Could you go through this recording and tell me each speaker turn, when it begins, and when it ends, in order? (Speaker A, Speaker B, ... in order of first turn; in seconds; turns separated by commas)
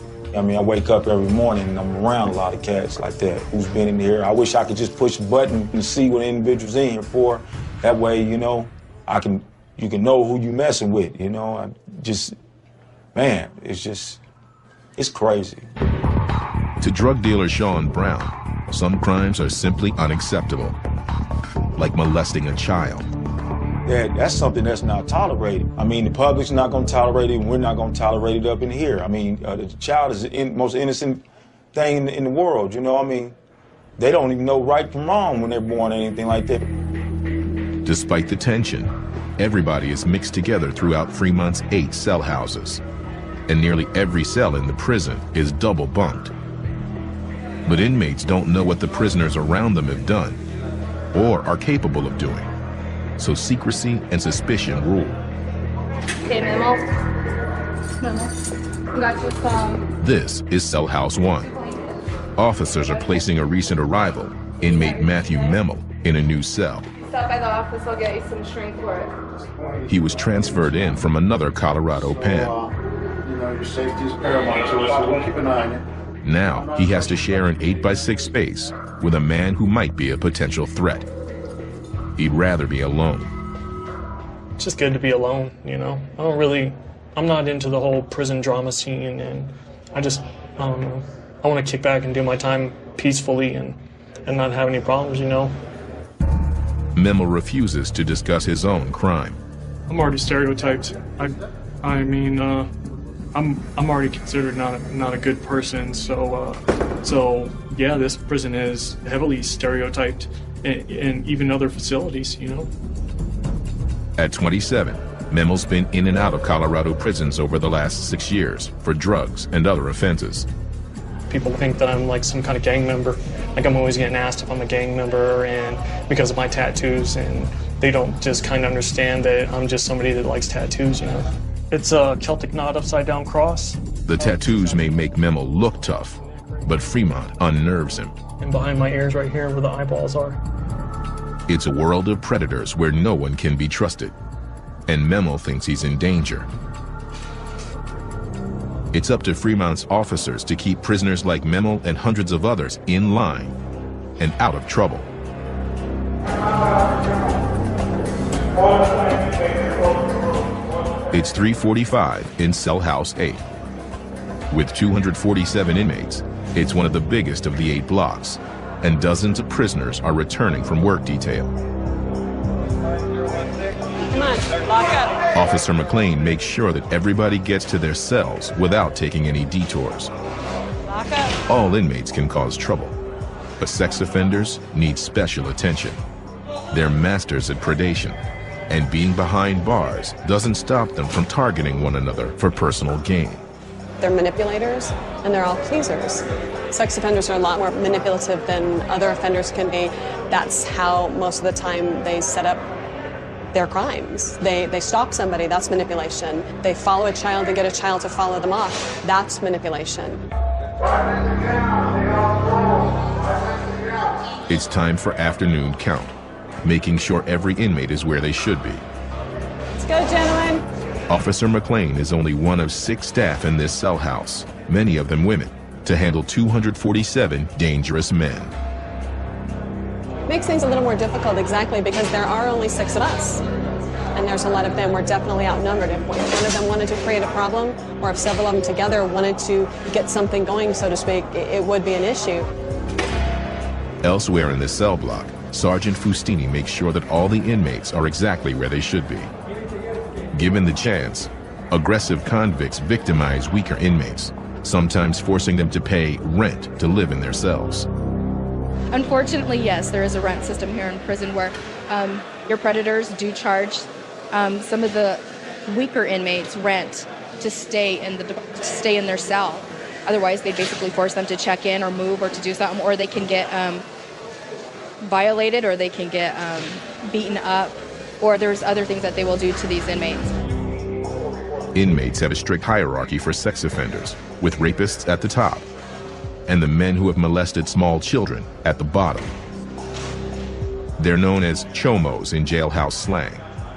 Speaker A: 0.3-12.3, Speaker A: 13.1-14.2, Speaker A: 14.9-15.7, Speaker B: 16.8-20.8, Speaker B: 21.8-23.1, Speaker A: 23.8-33.4, Speaker A: 34.0-36.6, Speaker B: 37.8-42.8, Speaker B: 43.5-46.3, Speaker B: 47.6-50.4, Speaker B: 51.1-52.5, Speaker B: 53.2-55.2, Speaker C: 56.3-56.8, Speaker C: 58.9-59.9, Speaker B: 60.0-61.5, Speaker B: 62.4-66.9, Speaker C: 68.2-68.6, Speaker B: 69.9-72.5, Speaker D: 72.0-72.7, Speaker D: 73.2-75.8, Speaker B: 76.2-81.0, Speaker D: 76.5-77.3, Speaker B: 82.2-83.3, Speaker E: 84.6-95.5, Speaker B: 96.9-99.4, Speaker E: 99.9-102.7, Speaker E: 103.3-112.7, Speaker B: 114.2-120.5, Speaker E: 121.3-134.5, Speaker B: 134.0-138.1, Speaker E: 138.4-140.4, Speaker B: 141.5-144.1, Speaker B: 144.9-146.5, Speaker B: 148.9-153.5, Speaker B: 154.2-155.1, Speaker B: 161.1-163.4, Speaker B: 164.5-171.5, Speaker F: 174.1-175.2, Speaker B: 175.3-180.1, Speaker F: 180.9-181.3, Speaker B: 181.5-183.0, Speaker B: 183.6-186.0, Speaker B: 186.7-188.2, Speaker B: 188.7-193.4, Speaker F: 194.0-202.7, Speaker F: 203.5-210.2, Speaker B: 214.5-218.8, Speaker F: 219.7-220.7, Speaker B: 221.1-228.5, Speaker F: 230.3-233.4, Speaker F: 234.1-242.5, Speaker B: 244.0-249.3, Speaker B: 250.3-257.9, Speaker G: 258.9-273.8, Speaker G: 275.0-280.4, Speaker B: 281.7-285.7, Speaker B: 286.5-289.3, Speaker B: 291.0-293.4